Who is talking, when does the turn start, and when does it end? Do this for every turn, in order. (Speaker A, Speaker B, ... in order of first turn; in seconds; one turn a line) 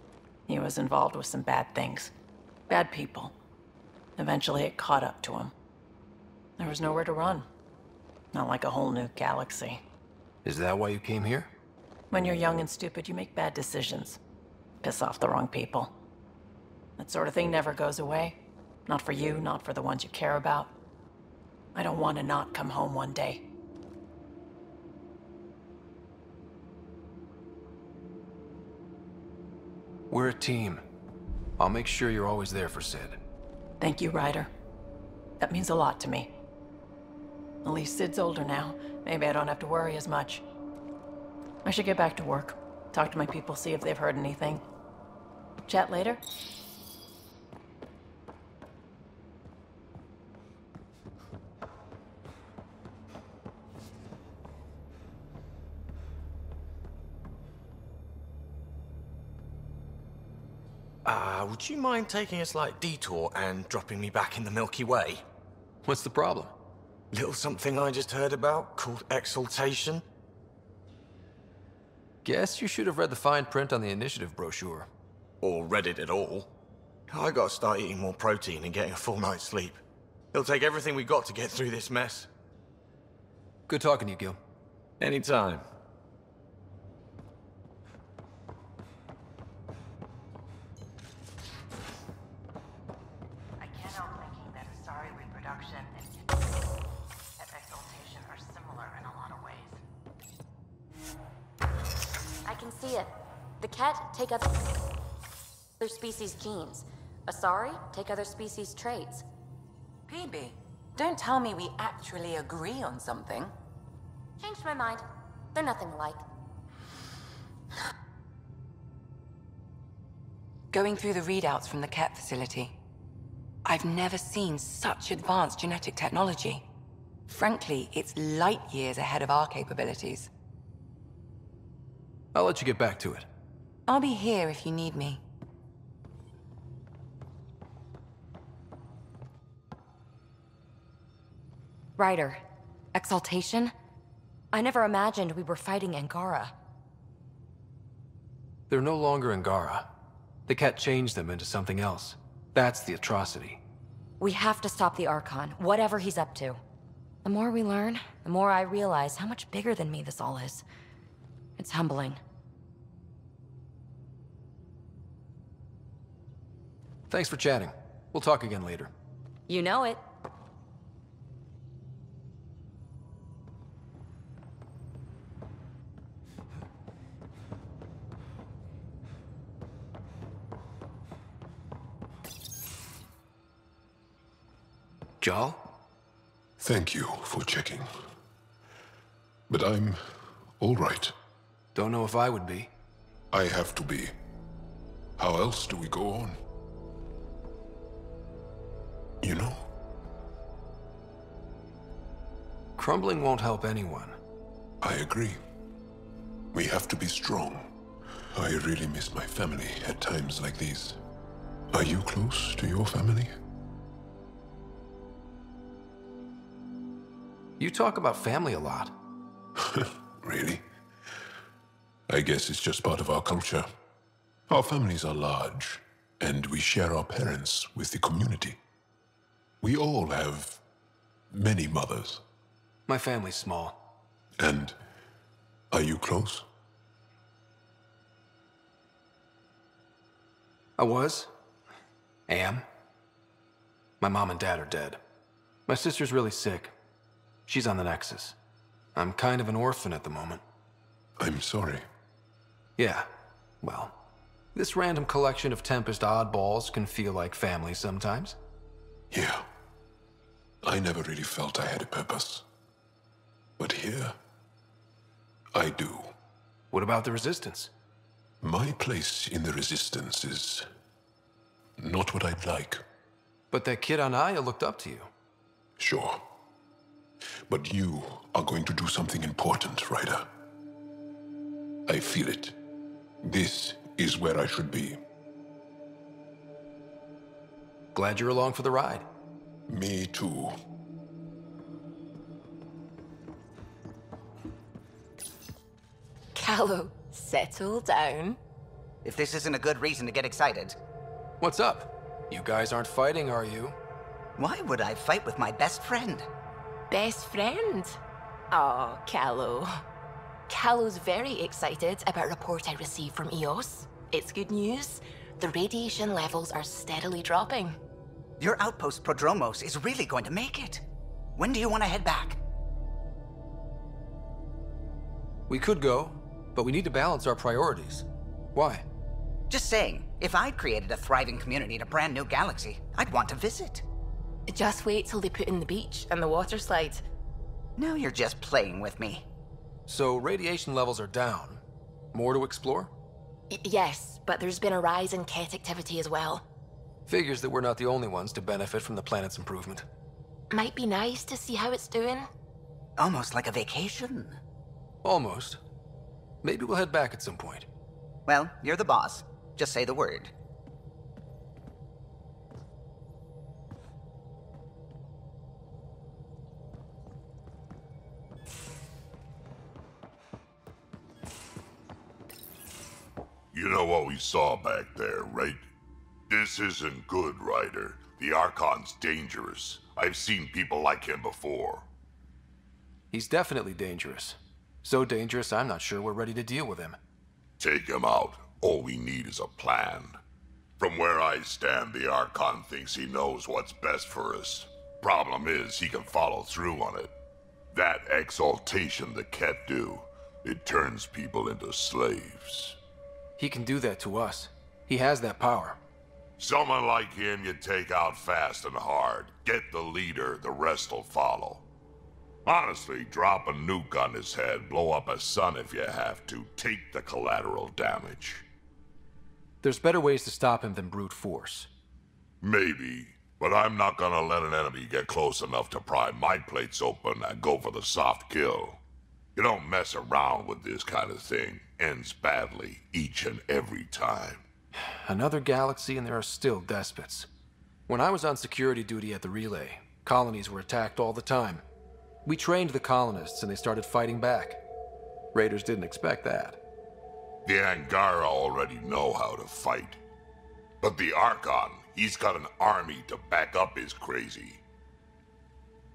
Speaker A: 0.5-2.1
Speaker A: 2.7-3.3
Speaker A: 4.2-5.5
Speaker A: 6.6-7.5
Speaker A: 8.3-9.8
Speaker B: 10.4-11.5
Speaker A: 12.1-14.2
Speaker A: 14.8-15.9
Speaker A: 17.0-20.7
Speaker A: 21.7-23.4
Speaker B: 30.1-30.8
Speaker B: 31.6-33.2
Speaker A: 33.8-34.5
Speaker A: 35.4-36.3
Speaker A: 37.6-40.4
Speaker A: 41.6-44.6
Speaker A: 45.7-46.2
Speaker C: 61.0-65.2
Speaker B: 65.8-66.5
Speaker C: 67.1-70.0
Speaker B: 72.2-74.9
Speaker C: 75.4-76.5
Speaker C: 77.1-79.8
Speaker C: 80.3-82.3
Speaker B: 83.7-84.4
Speaker C: 85.0-85.7
Speaker D: 102.4-104.6
Speaker D: 105.8-109.2
Speaker E: 110.1-113.5
Speaker D: 114.4-116.2
Speaker F: 120.7-122.7
Speaker F: 123.7-126.6
Speaker F: 127.3-130.3
Speaker B: 132.3-133.3
Speaker F: 133.9-135.2
Speaker D: 142.0-142.4
Speaker D: 142.9-143.7
Speaker D: 144.5-146.5
Speaker B: 148.7-149.9
Speaker B: 150.5-153.6
Speaker D: 154.2-156.6
Speaker D: 157.2-160.6
Speaker D: 161.6-162.2
Speaker B: 167.1-168.9
Speaker D: 169.5-170.0
Speaker B: 185.2-185.6
Speaker G: 186.6-187.9
Speaker G: 189.5-191.1
Speaker B: 191.7-192.7
Speaker G: 193.3-194.1
Speaker G: 195.2-196.4
Speaker G: 199.2-199.7
Speaker B: 202.8-204.2
Speaker G: 204.8-205.4
Speaker G: 206.5-207.7
Speaker G: 208.3-211.0
Speaker G: 211.7-213.3
Speaker B: 217.6-218.9
Speaker G: 219.6-220.6
Speaker G: 222.1-223.7
Speaker G: 224.5-228.6
Speaker G: 229.6-230.6
Speaker G: 231.3-232.2
Speaker B: 232.9-233.8
Speaker G: 234.4-234.8
Speaker G: 235.7-236.4
Speaker B: 240.8-241.3
Speaker B: 242.3-242.7
Speaker B: 244.0-245.0
Speaker B: 245.7-246.7
Speaker B: 247.5-248.3
Speaker B: 248.9-250.4
Speaker G: 251.2-251.8
Speaker B: 252.8-253.1
Speaker B: 253.6-254.0
Speaker B: 254.5-258.4
Speaker G: 259.1-259.5
Speaker G: 260.6-262.4
Speaker G: 263.6-264.2
Speaker G: 265.5-266.1
Speaker B: 266.7-267.7
Speaker G: 268.4-270.7
Speaker G: 271.8-272.8
Speaker B: 273.5-275.1
Speaker G: 275.8-276.2
Speaker G: 277.5-280.3
Speaker G: 281.9-282.6
Speaker G: 283.2-285.0
Speaker B: 287.9-289.1
Speaker G: 289.7-290.6
Speaker H: 296.3-298.4
Speaker I: 299.0-300.7
Speaker B: 301.4-303.8
Speaker I: 304.4-306.3
Speaker H: 306.9-308.0
Speaker H: 308.5-309.8
Speaker H: 310.5-317.8
Speaker I: 318.4-320.8
Speaker I: 321.4-322.4
Speaker B: 325.5-328.9
Speaker I: 329.5-333.8
Speaker H: 334.5-337.0
Speaker I: 337.8-339.2
Speaker B: 339.9-342.9
Speaker H: 343.5-346.4
Speaker B: 347.1-349.9
Speaker H: 350.5-352.3
Speaker I: 353.0-354.4
Speaker B: 355.0-355.6
Speaker B: 356.4-357.7
Speaker I: 358.3-360.3
Speaker J: 373.5-375.6
Speaker J: 376.3-381.9
Speaker B: 383.1-387.0
Speaker J: 387.6-390.2
Speaker J: 390.8-397.1
Speaker J: 397.7-402.8
Speaker B: 403.4-405.8
Speaker J: 406.4-411.6
Speaker J: 412.4-418.4
Speaker B: 419.6-421.7
Speaker J: 422.4-428.8
Speaker J: 429.4-434.4
Speaker B: 434.8-437.3
Speaker B: 437.9-441.6
Speaker B: 442.2-444.6
Speaker B: 445.3-446.6
Speaker J: 447.4-450.0
Speaker J: 450.8-454.6